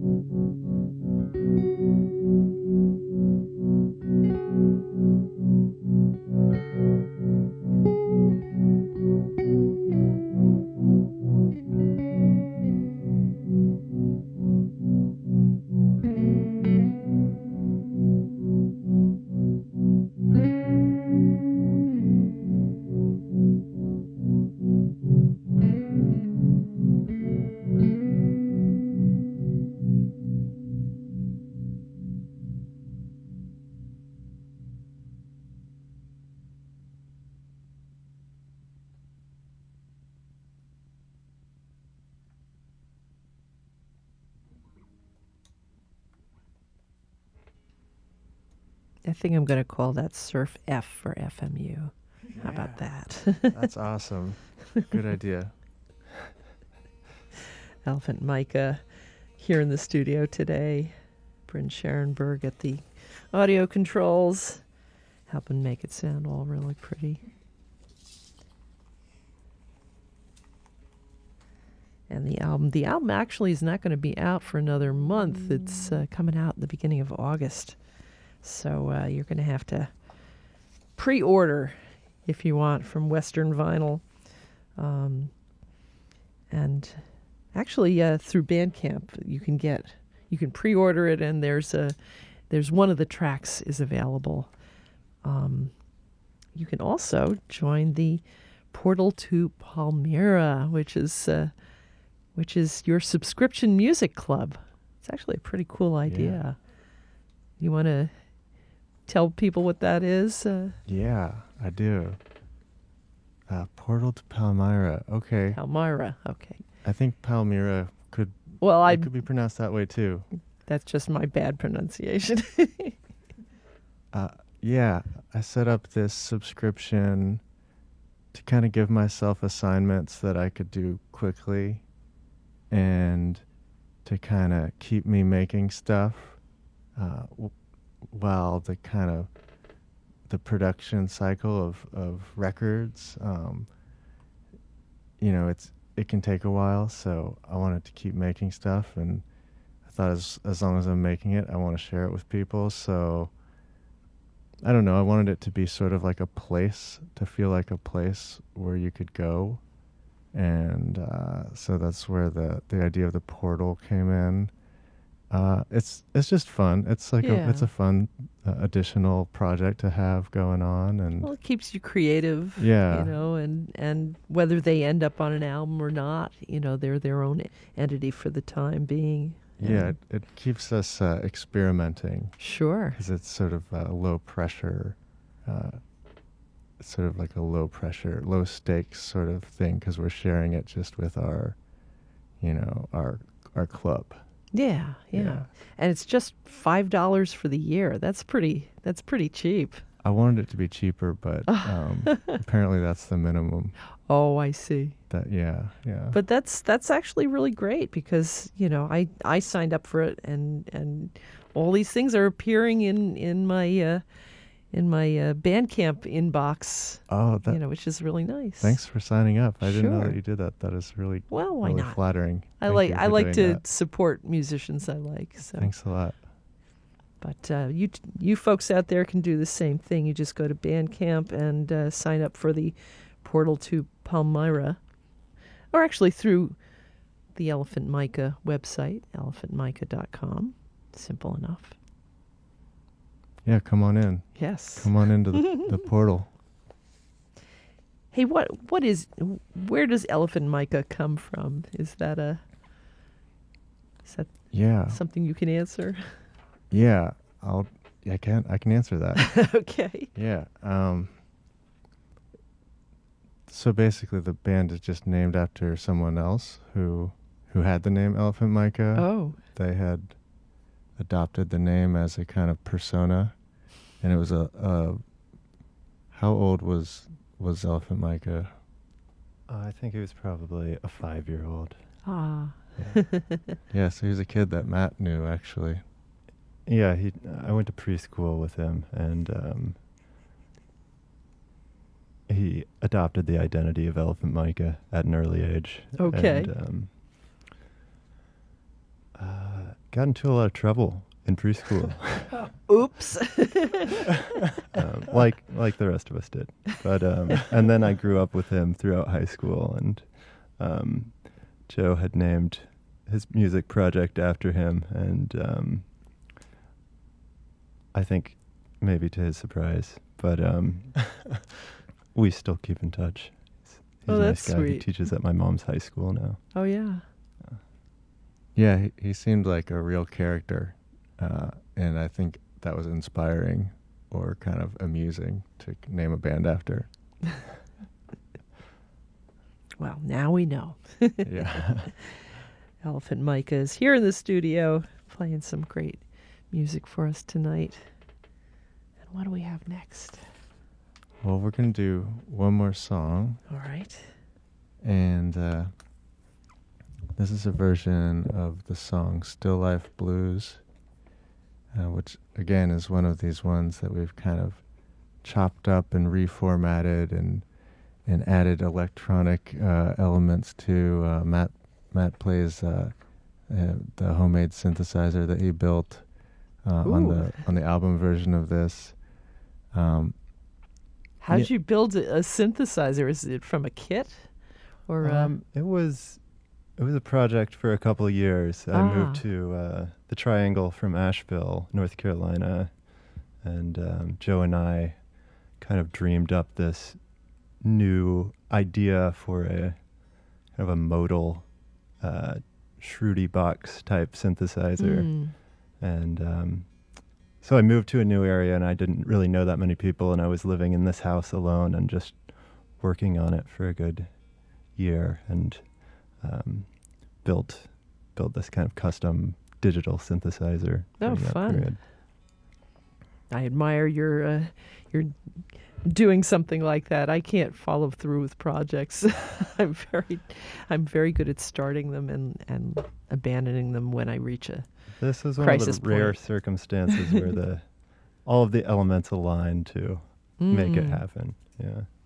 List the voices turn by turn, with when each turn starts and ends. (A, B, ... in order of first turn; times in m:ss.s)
0:49.0-0:53.7 A
0:52.5-0:55.6 B
0:57.8-1:07.2 A
1:12.1-1:25.6 A
1:26.5-1:34.6 A
1:35.2-1:50.8 A
1:46.1-1:46.4 B
1:50.8-1:52.2 B
1:53.5-1:55.6 B
1:55.5-1:56.6 A
1:56.8-2:00.3 B
1:58.6-1:59.3 A
2:00.5-2:03.0 A
2:04.1-2:07.4 B
2:08.3-2:12.0 B
2:12.7-2:23.8 B
2:25.2-2:33.4 B
2:34.6-2:44.7 B
2:45.3-2:51.3 B
2:47.2-2:47.7 A
2:51.2-3:00.0 A
2:52.6-2:53.1 B
2:59.6-3:15.5 B
3:02.4-3:03.0 A
3:14.5-3:19.8 A
3:20.0-3:23.8 B
3:21.5-3:22.3 A
3:24.0-3:25.0 A
3:25.1-3:26.2 B
3:26.1-3:39.0 A
3:37.1-3:43.6 B
3:39.6-3:40.2 A
3:41.3-3:46.2 A
3:45.5-3:46.3 B
3:47.2-4:01.8 A
4:03.4-4:06.3 B
4:04.4-4:05.6 A
4:08.1-4:12.5 A
4:14.0-4:16.3 A
4:14.5-4:15.0 B
4:16.7-4:21.2 B
4:19.4-4:20.1 A
4:23.5-4:35.2 B
4:28.9-4:29.4 A
4:36.1-4:38.6 B
4:39.5-4:43.0 C
4:42.0-4:43.3 A
4:43.7-4:45.9 B
4:46.6-4:49.8 C
4:52.3-4:56.9 C
4:56.0-4:56.5 A
4:59.1-5:02.5 C
5:02.4-5:04.0 A
5:04.7-5:16.0 C
5:17.9-5:21.4 C
5:22.1-5:27.6 C
5:24.1-5:25.1 A
5:26.5-5:27.0 A
5:28.5-5:37.4 B
5:39.8-5:48.1 A
5:41.2-5:42.0 B
5:49.0-5:50.2 A
5:51.2-5:53.4 B
5:53.5-5:54.2 A
5:54.8-5:55.7 B
5:57.2-6:00.7 B
6:01.7-6:20.7 B
6:16.8-6:17.4 A
6:21.2-6:25.3 A
6:25.0-7:01.8 C
6:28.7-6:29.2 A
6:44.8-6:45.3 A
7:01.0-7:01.7 A
7:03.3-7:16.8 A
7:15.0-7:21.9 C
7:20.4-7:21.0 A